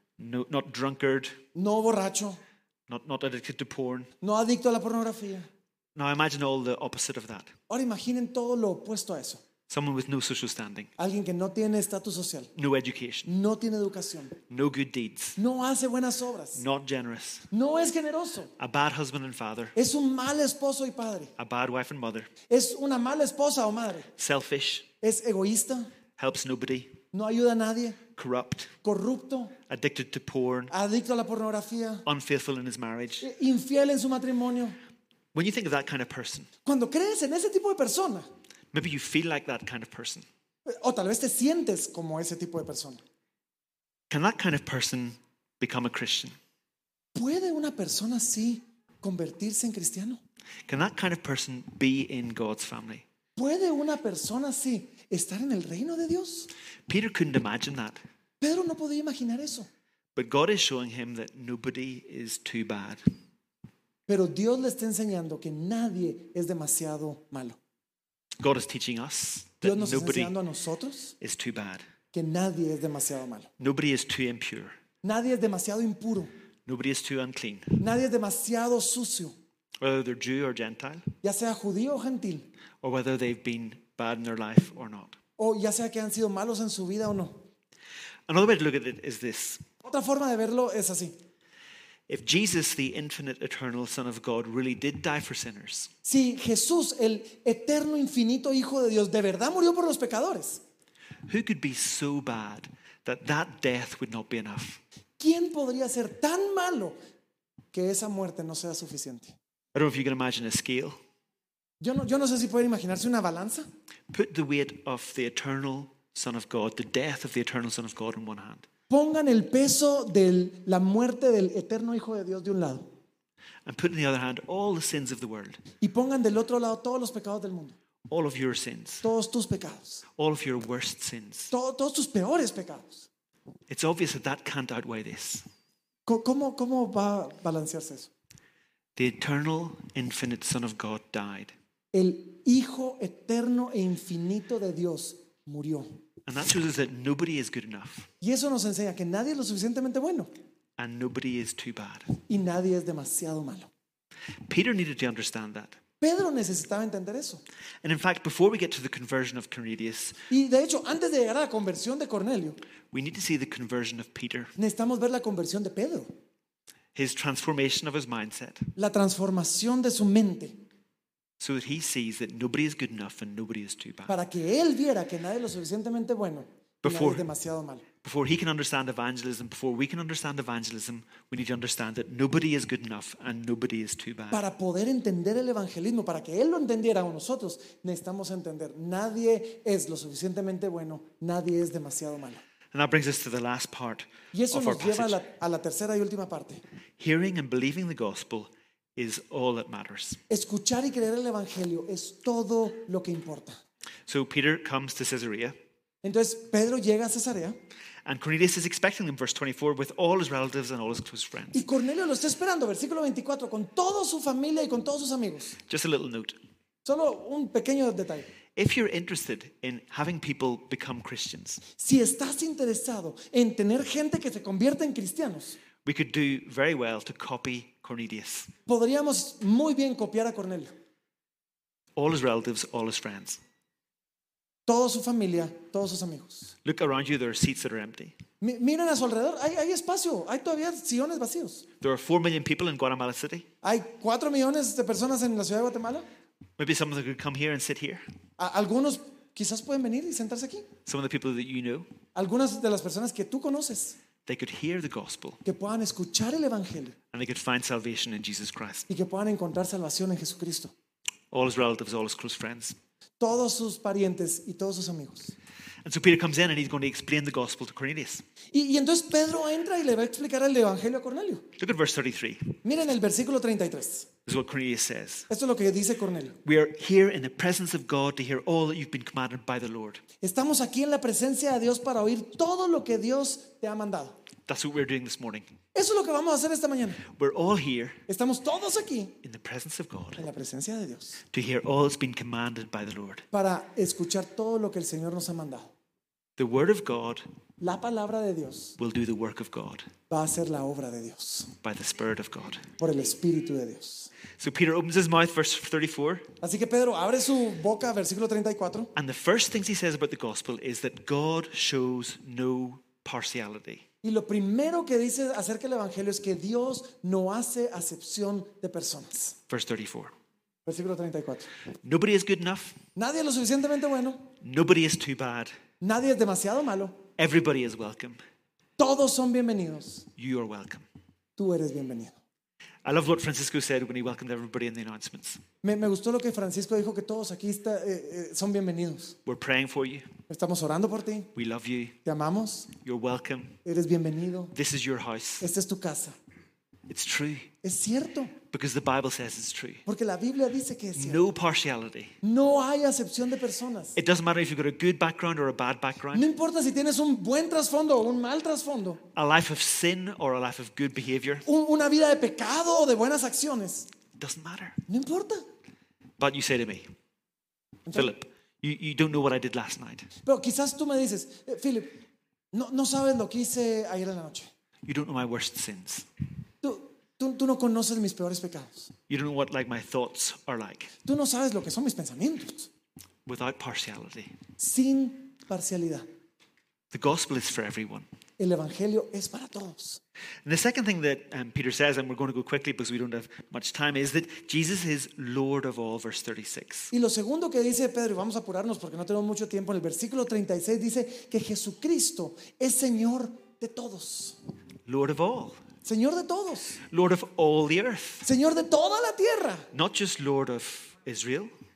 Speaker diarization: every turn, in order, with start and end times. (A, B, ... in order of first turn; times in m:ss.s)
0:00.2-0:01.4 A
0:01.5-0:02.4 B
0:02.9-0:04.1 A
0:04.2-0:05.5 B
0:05.9-0:07.5 A
0:07.7-0:09.4 B
0:09.7-0:10.9 A
0:11.0-0:12.5 B
0:12.5-0:13.3 A
0:13.2-0:14.4 B
0:14.5-0:15.4 A
0:15.4-0:16.6 B
0:16.6-0:17.5 A
0:17.5-0:18.5 B
0:18.6-0:19.7 A
0:19.8-0:21.3 B
0:21.4-0:22.3 A
0:22.5-0:24.1 B
0:24.2-0:24.9 A
0:25.0-0:25.9 B
0:26.2-0:27.0 A
0:27.1-0:28.0 B
0:28.2-0:28.7 A
0:28.8-0:29.6 B
0:29.7-0:30.7 A
0:30.7-0:32.0 B
0:32.0-0:33.3 A
0:33.2-0:34.8 B
0:35.3-0:36.5 A
0:36.6-0:38.3 B
0:38.7-0:40.2 A
0:40.6-0:43.0 B
0:44.1-0:46.3 A
0:47.1-0:50.2 B
0:50.7-0:53.0 A
0:53.4-0:56.5 B
0:56.9-0:58.0 A
0:58.4-0:59.7 B
1:00.1-1:03.0 A
1:04.1-1:07.6 B
1:08.4-1:10.4 A
1:09.6-1:11.1 B
1:11.2-1:11.8 A
1:12.1-1:13.5 B
1:13.6-1:14.7 A
1:15.0-1:16.3 B
1:16.7-1:17.8 A
1:17.8-1:19.3 B
1:19.8-1:21.0 A
1:21.2-1:22.5 B
1:22.8-1:25.2 A
1:25.4-1:27.3 B
1:28.3-1:29.6 A
1:29.8-1:31.1 B
1:32.1-1:35.9 A
1:36.0-1:40.6 B
1:41.2-1:44.8 A
1:45.2-1:47.0 B
1:47.7-1:49.4 B
1:49.7-1:51.0 A
1:51.8-1:53.6 B
1:54.1-1:58.7 A
1:58.9-2:02.9 B
2:03.6-2:05.6 A
2:05.8-2:07.8 B
2:08.1-2:09.0 A
2:09.0-2:10.0 B
2:10.2-2:11.5 A
2:11.5-2:13.1 B
2:13.7-2:15.4 A
2:16.1-2:18.1 B
2:19.0-2:21.5 A
2:21.9-2:25.9 B
2:26.2-2:28.1 A
2:28.2-2:30.3 B
2:30.8-2:32.1 A
2:32.2-2:33.7 B
2:34.5-2:35.8 A
2:36.0-2:37.4 B
2:37.8-2:40.2 A
2:40.3-2:42.6 B
2:42.9-2:44.5 A
2:44.6-2:46.1 B
2:46.9-2:48.7 A
2:48.8-2:50.6 B
2:51.4-2:54.1 A
2:54.1-2:57.8 B
2:56.8-2:57.2 A
2:58.0-3:04.4 A
3:04.3-3:12.4 B
3:12.7-3:15.2 A
3:14.3-3:16.6 B
3:17.0-3:20.2 A
3:20.3-3:23.6 B
3:24.0-3:25.5 A
3:26.0-3:27.6 B
3:28.0-3:31.6 A
3:31.5-3:35.6 B
3:35.7-3:36.4 A
3:36.8-3:38.3 B
3:38.6-3:41.6 A
3:41.8-3:45.6 B
3:45.8-3:48.5 A
3:48.7-3:50.7 B
3:52.0-3:53.4 A
3:54.7-3:56.5 B
3:56.6-3:58.1 A
3:58.4-4:01.6 B
4:01.8-4:03.5 A
4:03.6-4:06.0 B
4:06.6-4:08.0 A
4:08.4-4:10.7 B
4:10.8-4:11.9 A
4:12.1-4:14.0 B
4:14.2-4:15.4 A
4:15.4-4:17.0 B
4:17.1-4:18.9 A
4:18.9-4:20.7 B
4:21.3-4:22.8 A
4:23.2-4:25.3 B
4:25.8-4:28.2 A
4:28.5-4:31.4 B
4:31.6-4:32.6 A
4:32.6-4:34.1 B
4:34.2-4:35.3 A
4:35.3-4:36.4 B
4:36.4-4:40.0 A
4:40.2-4:44.2 B
4:44.5-4:45.4 A
4:45.7-4:47.1 B
4:47.1-4:48.0 A
4:48.1-4:49.2 B
4:49.2-4:50.3 A
4:50.2-4:51.2 B
4:51.3-4:53.2 A
4:53.3-4:55.7 B
4:56.4-4:57.2 A
4:57.6-4:58.8 B
4:58.8-4:59.9 A
5:00.1-5:01.5 B
5:01.6-5:02.6 A
5:02.8-5:04.1 B
5:04.4-5:06.3 A
5:06.4-5:08.9 B
5:08.9-5:13.8 A
5:14.0-5:19.4 B
5:19.5-5:20.1 A
5:20.6-5:21.5 B
5:21.8-5:22.8 A
5:23.0-5:24.3 B
5:24.4-5:25.5 A
5:25.8-5:27.0 B
5:27.2-5:28.2 A
5:28.8-5:30.1 B
5:30.2-5:30.8 A
5:31.4-5:32.2 B
5:32.8-5:35.4 A
5:35.6-5:39.2 B
5:39.2-5:40.1 A
5:40.3-5:41.3 B
5:41.3-5:42.0 A
5:42.0-5:42.7 B
5:42.7-5:43.6 A
5:43.6-5:44.5 B
5:44.5-5:45.5 A
5:45.4-5:46.1 B
5:46.9-5:47.5 A
5:47.6-5:48.4 B
5:48.4-5:49.8 A
5:49.8-5:51.2 B
5:51.0-5:52.2 A
5:52.2-5:54.0 B
5:53.9-5:56.3 A
5:56.1-5:59.0 B
5:59.1-6:01.4 A
6:01.4-6:03.9 B
6:04.2-6:04.8 A
6:04.9-6:05.4 B
6:06.2-6:06.8 A
6:07.9-6:10.1 A
6:10.2-6:12.0 B
6:12.5-6:14.5 B
6:14.8-6:16.1 A
6:16.6-6:18.9 B
6:19.1-6:20.9 A
6:21.0-6:22.7 B
6:23.2-6:24.4 A
6:24.6-6:26.0 B
6:26.9-6:28.1 A
6:28.4-6:30.0 B
6:30.4-6:36.9 A
6:36.9-6:44.4 B
6:44.8-6:45.6 A
6:45.8-6:46.8 B
6:46.8-6:48.2 A
6:48.2-6:49.7 B
6:49.7-6:51.5 A